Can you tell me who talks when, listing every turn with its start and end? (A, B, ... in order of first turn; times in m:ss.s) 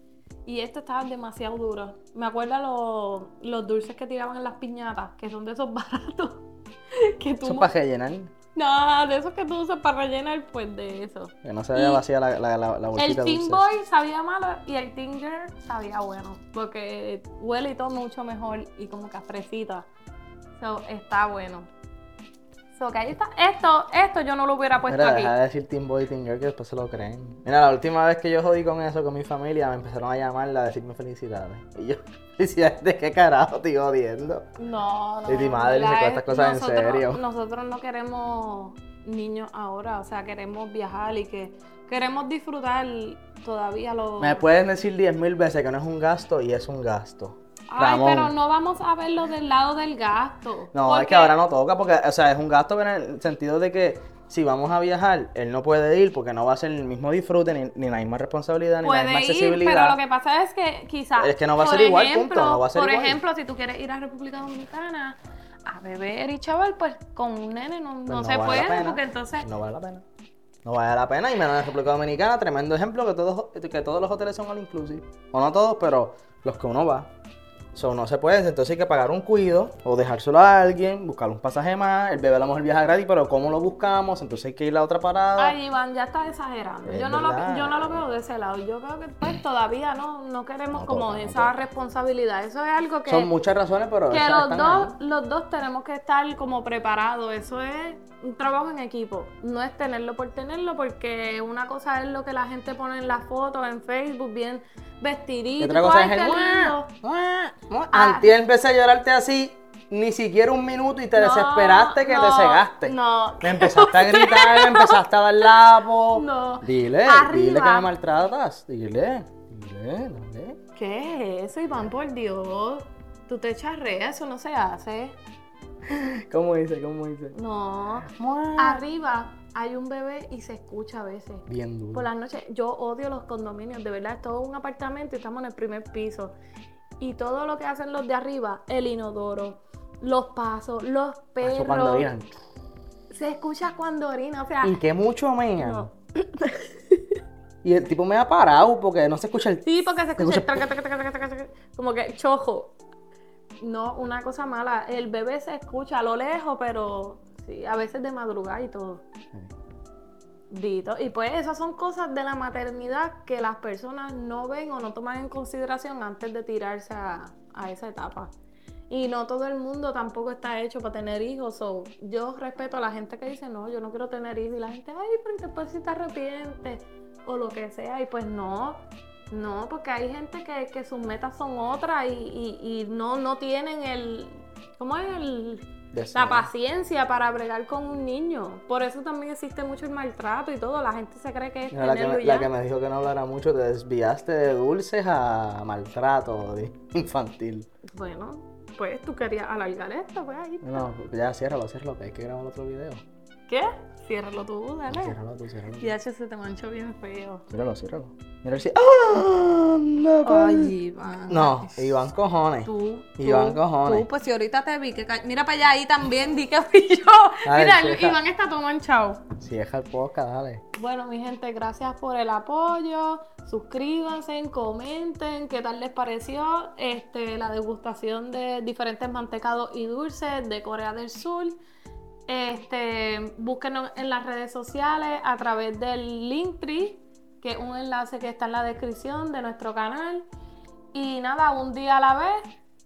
0:00.4-0:07.7 A
0:07.4-0:08.3 B
0:08.5-0:12.0 A
0:11.4-0:13.6 B
0:13.0-0:19.9 A
0:20.6-0:21.7 A
0:22.8-0:25.4 A
0:24.9-0:34.4 B
0:34.6-0:44.5 A
0:35.3-0:37.2 B
0:44.2-0:48.3 B
0:47.7-0:51.4 A
0:50.7-1:00.0 B
0:58.8-1:09.5 A
1:01.2-1:03.2 B
1:08.1-1:10.0 B
1:10.6-1:17.1 B
1:17.7-1:25.6 B
1:25.4-1:33.3 A
1:26.8-1:28.0 B
1:30.7-1:31.6 B
1:33.1-1:35.0 B
1:34.1-1:46.9 A
1:45.6-2:00.6 B
1:47.9-1:48.3 A
1:51.2-1:57.9 A
2:00.7-2:05.2 A
2:05.8-2:07.3 B
2:07.3-2:16.3 A
2:08.0-2:08.8 B
2:11.5-2:12.1 B
2:17.0-2:22.1 A
2:21.4-2:22.4 B
2:23.1-2:24.8 A
2:24.6-2:25.9 B
2:25.6-2:27.2 A
2:27.6-2:29.6 B
2:29.6-2:32.7 A
2:30.2-2:30.6 B
2:33.6-2:39.0 A
2:40.5-2:48.3 A
2:48.9-3:12.5 A
3:05.9-3:06.5 B
3:11.7-3:17.7 B
3:17.8-3:20.9 A
3:20.6-3:23.0 B
3:23.5-3:25.2 A
3:24.9-3:26.0 B
3:25.8-3:27.4 A
3:27.5-3:30.7 B
3:30.2-3:32.0 A
3:31.3-3:34.1 B
3:32.6-3:39.3 A
3:37.4-3:38.2 B
3:39.4-3:40.6 B
3:40.7-3:51.6 A
3:52.3-4:00.2 A
4:00.9-4:02.4 A